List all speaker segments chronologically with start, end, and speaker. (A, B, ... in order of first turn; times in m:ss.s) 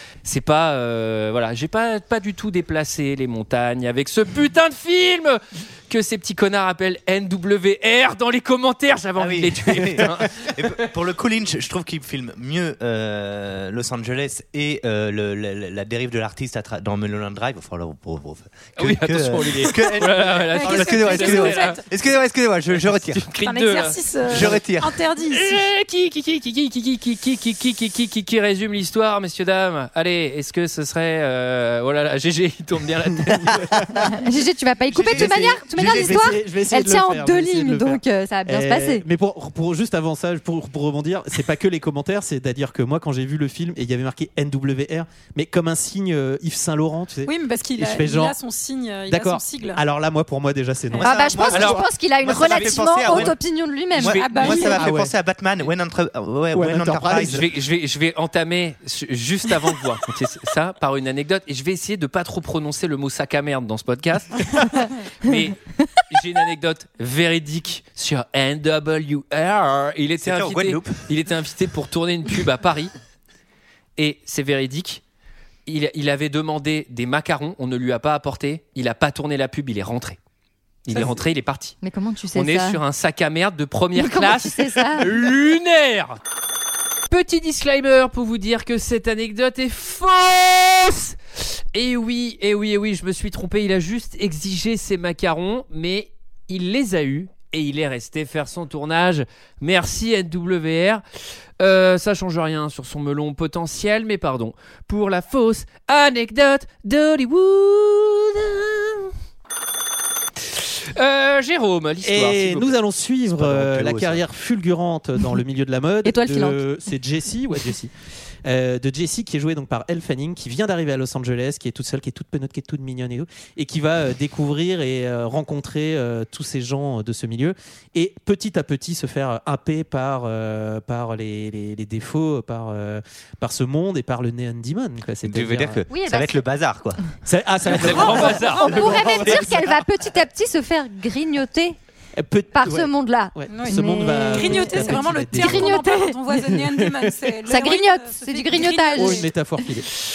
0:00.2-0:10.6 A
0:09.2-0:23.2 B
0:18.8-0:21.8 A
0:20.5-0:21.8 C
0:22.7-0:24.6 A
0:23.4-0:25.6 C
0:24.3-0:25.0 B
0:25.3-0:33.6 A
0:33.4-0:33.8 D
0:34.2-0:39.0 E
0:34.9-0:36.4 B
0:35.1-0:48.4 D
0:47.2-0:49.8 C
0:49.1-0:51.8 D
0:51.0-0:57.5 B
0:51.0-0:54.2 E
0:51.5-0:51.8 A
0:54.0-0:54.7 A
0:54.1-0:54.8 C
0:54.7-0:55.1 D
0:56.5-0:57.4 D
0:57.2-1:12.9 A
1:10.2-1:11.0 B
1:14.0-1:15.0 A
1:15.6-1:20.2 A
1:20.8-1:21.8 A
1:21.8-1:22.8 E
1:22.3-1:26.2 A
1:24.0-1:25.1 E
1:27.1-1:31.1 A
1:31.7-1:41.0 A
1:41.6-1:49.1 A
1:50.6-1:52.7 A
1:52.0-1:57.9 D
1:53.4-1:54.2 B
1:56.0-1:56.6 E
1:58.4-2:15.8 D
2:15.2-2:17.0 B
2:15.9-2:16.3 E
2:17.2-2:19.6 D
2:17.6-2:19.2 A
2:18.6-2:21.7 E
2:22.2-2:25.8 D
2:22.5-2:26.1 E
2:23.5-2:29.3 C
2:26.4-2:27.1 D
2:27.5-2:29.2 E
2:28.9-2:29.8 D